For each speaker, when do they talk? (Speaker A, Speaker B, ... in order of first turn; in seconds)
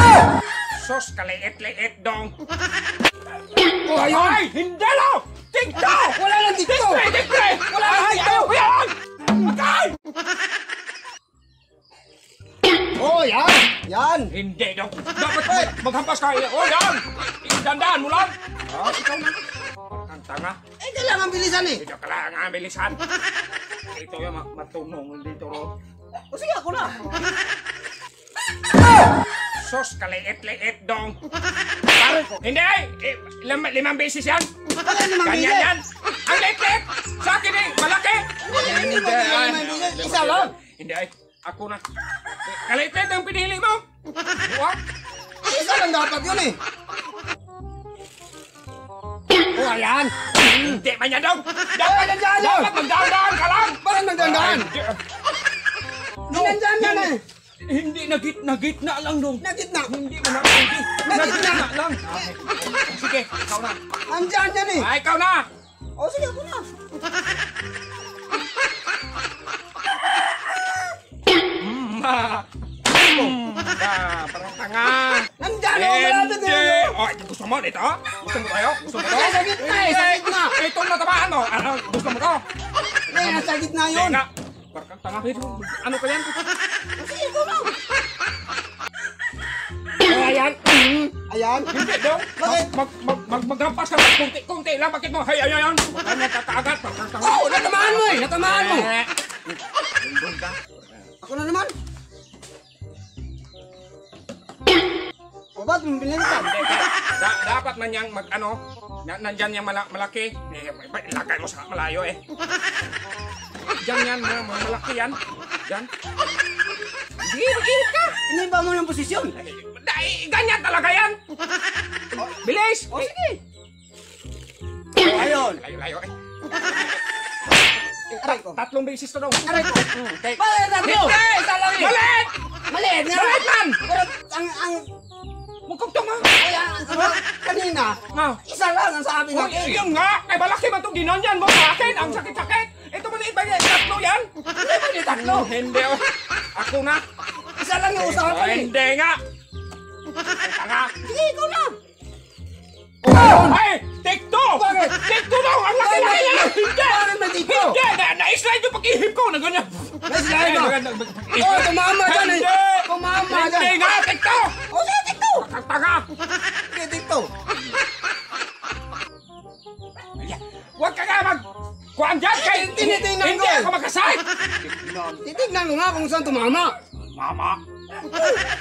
Speaker A: 0.7-2.3, 4.0-9.9, 14.3-19.4, 20.0-20.6, 21.8-23.0, 23.9-25.7, 29.6-31.2, 31.9-34.5, 35.2-41.8, 42.5-43.8, 44.4-44.8, 50.5-55.0, 56.3-57.1, 57.6-63.8, 64.8-65.5, 71.6-72.5, 73.0-82.4, 83.1-86.4, 91.7-100.7, 106.2-112.2, 113.8-115.9, 117.2-118.2, 119.4-121.2, 122.2-123.1, 125.0-126.1, 128.1-132.3, 133.1-133.8, 135.7-136.3, 138.1-138.4, 139.3-144.3, 145.1-147.0, 148.0-149.2, 150.4-150.9, 153.1-164.6, 165.3-166.1, 170.2-175.2, 177.1-177.6
Speaker B: 3.8-4.4, 6.1-7.1, 7.6-8.5, 13.0-14.3, 15.4-15.7, 20.8-21.8, 26.3-27.0, 34.7-35.7, 38.5-40.5, 45.4-46.6, 49.5-50.8, 51.8-52.7, 53.8-54.7, 56.3-57.2, 59.4-59.9, 61.0-62.2, 64.1-64.9, 66.0-66.7, 73.0-73.3, 75.4-77.0, 78.9-80.6, 83.1-84.2, 87.0-87.7, 90.0-91.7, 92.3-92.7, 97.2-98.9, 101.2-101.7, 105.5-106.7, 118.3-119.4, 122.9-123.4, 125.0-125.6, 128.2-128.6, 129.4-131.9, 132.7-134.9, 136.3-139.9, 141.8-142.2, 144.6-145.5, 147.6-148.7, 151.0-151.8, 153.0-153.6, 154.5-155.0, 155.7-157.8, 160.1-160.8, 161.3-163.8, 164.7-165.5, 166.7-167.3, 172.3-173.7, 175.2-176.7